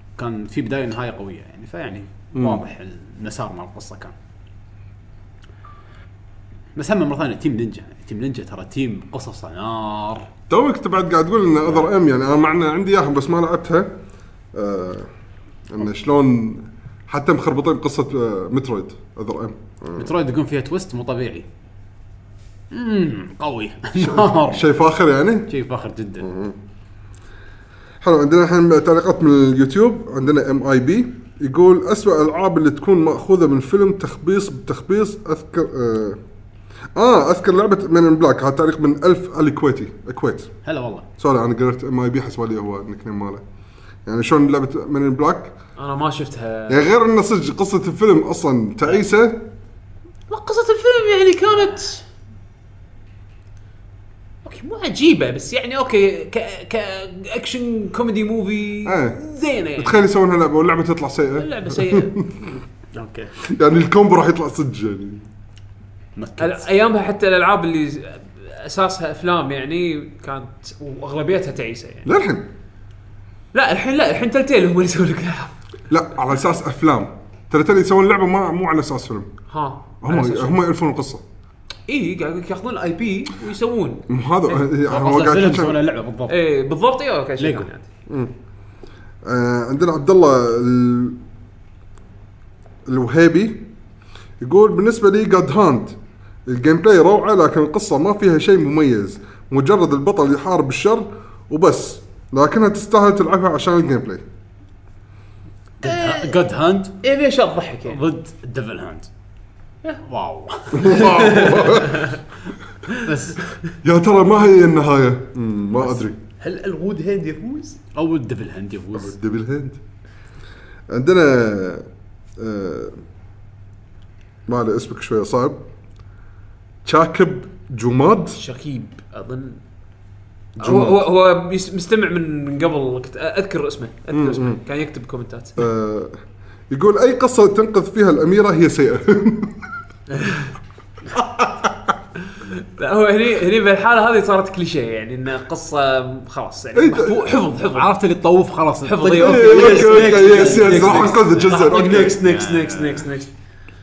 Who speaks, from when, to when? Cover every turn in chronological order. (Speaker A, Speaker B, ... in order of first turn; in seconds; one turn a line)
Speaker A: 0.2-4.1
Speaker B: 2.3-2.6
Speaker A: 6.8-10.3
Speaker B: 10.5-13.9
Speaker B: 14.6-15.1
Speaker B: 15.7-20.1
Speaker A: 19.9-21.5
Speaker A: 22.7-24.7
Speaker B: 24.0-25.5
Speaker A: 25.5-26.3
Speaker B: 26.2-26.6
Speaker B: 28.0-36.2
Speaker B: 37.0-40.5
Speaker A: 40.6-41.1
Speaker B: 41.2-43.4
Speaker B: 44.1-45.5
Speaker C: 45.8-46.9
Speaker B: 46.7-49.5
Speaker C: 50.3-52.0
Speaker C: 54.5-60.1
Speaker B: 58.9-59.2
Speaker B: 59.8-62.5
Speaker C: 61.4-62.2
Speaker A: 62.9-63.3
Speaker B: 63.4-65.3
Speaker A: 66.2-66.6
Speaker C: 66.4-72.1
Speaker B: 72.0-72.5
Speaker C: 73.5-75.5
Speaker B: 75.9-79.3
Speaker C: 79.5-80.6
Speaker B: 80.0-81.2
Speaker C: 81.9-84.6
Speaker B: 84.1-85.8
Speaker A: 84.9-86.4
Speaker C: 86.3-87.9
Speaker A: 87.4-87.7
Speaker B: 89.2-91.2
Speaker B: 92.9-93.7
Speaker B: 94.4-96.0
Speaker B: 96.5-104.2
Speaker A: 105.8-107.0
Speaker C: 105.8-106.4
Speaker C: 107.0-108.0
Speaker A: 107.9-109.1
Speaker A: 110.0-111.1
Speaker B: 110.7-112.1
Speaker C: 110.9-112.2
Speaker A: 113.0-113.4
Speaker B: 113.8-116.2
Speaker C: 116.4-117.8
Speaker A: 118.0-119.2
Speaker B: 119.0-119.8
Speaker B: 120.9-121.9
Speaker B: 122.4-123.0
Speaker B: 124.5-125.6
Speaker B: 126.8-128.4
Speaker C: 128.4-129.6
Speaker B: 130.6-131.1
Speaker C: 130.6-135.7
Speaker B: 134.1-134.6
Speaker B: 135.6-136.2
Speaker B: 136.7-139.6
Speaker C: 140.1-140.5
Speaker B: 141.2-141.7
Speaker C: 142.3-147.9
Speaker B: 146.8-147.2
Speaker A: 147.7-153.1
Speaker C: 148.8-153.3
Speaker B: 149.2-152.2